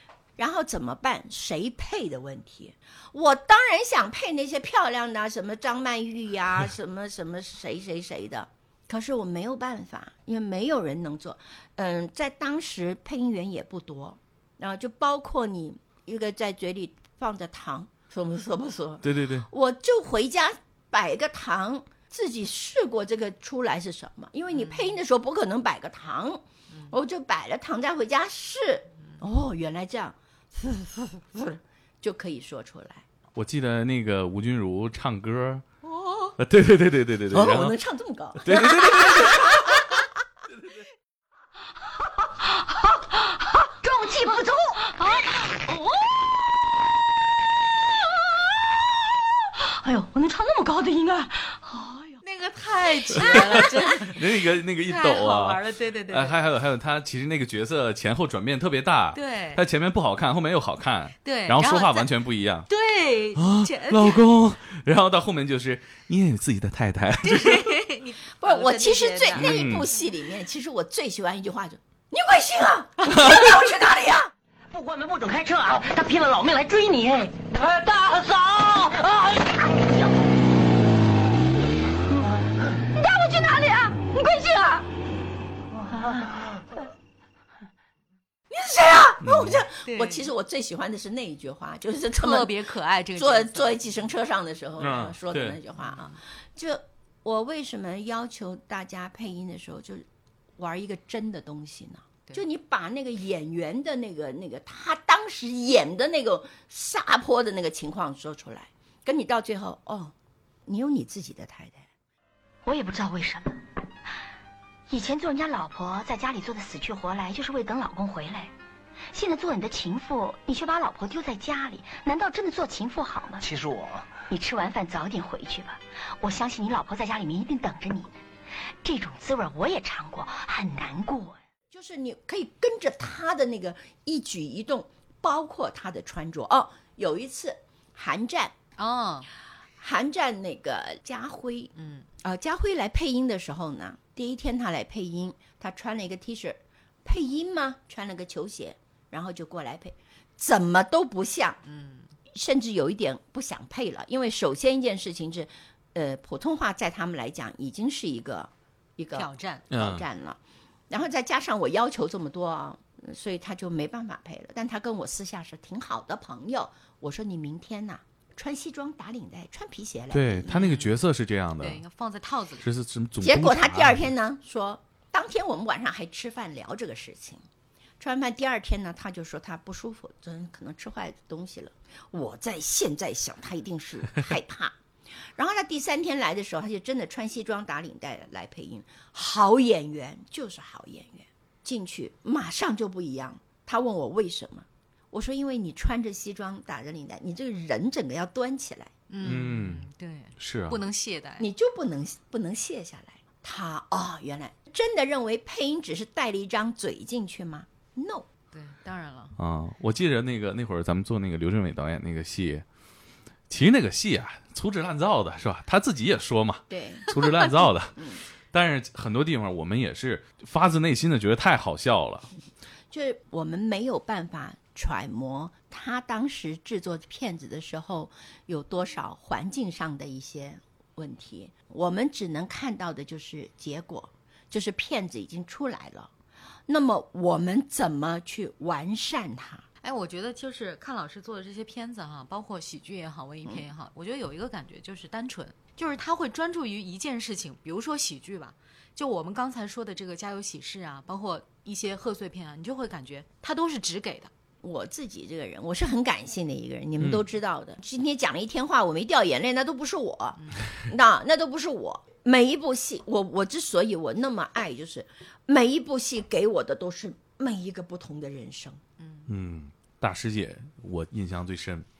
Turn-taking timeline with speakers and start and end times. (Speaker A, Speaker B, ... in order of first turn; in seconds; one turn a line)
Speaker A: 0.4-33.0
Speaker B: 19.0-19.5
Speaker C: 24.5-25.0
Speaker B: 33.3-35.6
Speaker A: 35.8-36.4
Speaker B: 36.4-37.8
Speaker A: 37.3-40.0
Speaker B: 38.4-39.9
Speaker D: 43.8-45.7
Speaker D: 49.8-51.8
Speaker C: 52.2-56.4
Speaker B: 53.1-62.7
Speaker C: 59.1-59.6
Speaker C: 61.2-62.1
Speaker C: 62.7-64.2
Speaker B: 63.3-67.8
Speaker C: 67.2-69.7
Speaker A: 68.4-74.3
Speaker B: 69.3-69.9
Speaker B: 73.1-73.4
Speaker A: 83.0-84.8
Speaker A: 88.5-92.6
Speaker B: 89.2-89.6
Speaker C: 89.8-90.3
Speaker C: 92.2-94.1
Speaker A: 93.2-100.0
Speaker B: 94.8-95.6
Speaker A: 100.6-110.1
Speaker A: 110.7-111.8
Speaker D: 112.7-113.6
Speaker D: 114.9-118.5
Speaker D: 119.1-123.4
Speaker D: 124.2-128.1
Speaker D: 128.8-131.3
Speaker A: 131.7-138.5
Speaker C: 138.8-139.3
Speaker A: 139.8-141.7
Speaker C: 141.8-142.1
Speaker A: 142.2-151.6
Speaker C: 151.7-152.1
Speaker A: 152.3-160.4
Speaker C: 159.1-159.6
Speaker B: 159.7-160.1
Speaker A: 160.9-170.5
Speaker B: 170.1-171.8
Speaker C: 170.5-170.9
Speaker C: 171.6-172.7
Speaker B: 172.6-174.1
Speaker A: 173.2-177.4
Speaker A: 178.0-184.7
Speaker A: 185.3-198.9
Speaker C: 199.1-201.5
Speaker B: 199.2-200.8
Speaker A: 201.4-208.2
Speaker C: 208.5-209.3
Speaker B: 209.4-212.6
Speaker B: 213.5-222.3
Speaker A: 216.7-217.1
Speaker A: 217.9-218.2
Speaker A: 222.9-236.1
Speaker A: 236.7-239.6
Speaker C: 239.8-254.3
Speaker A: 254.6-268.8
Speaker C: 269.0-269.3
Speaker B: 269.3-271.9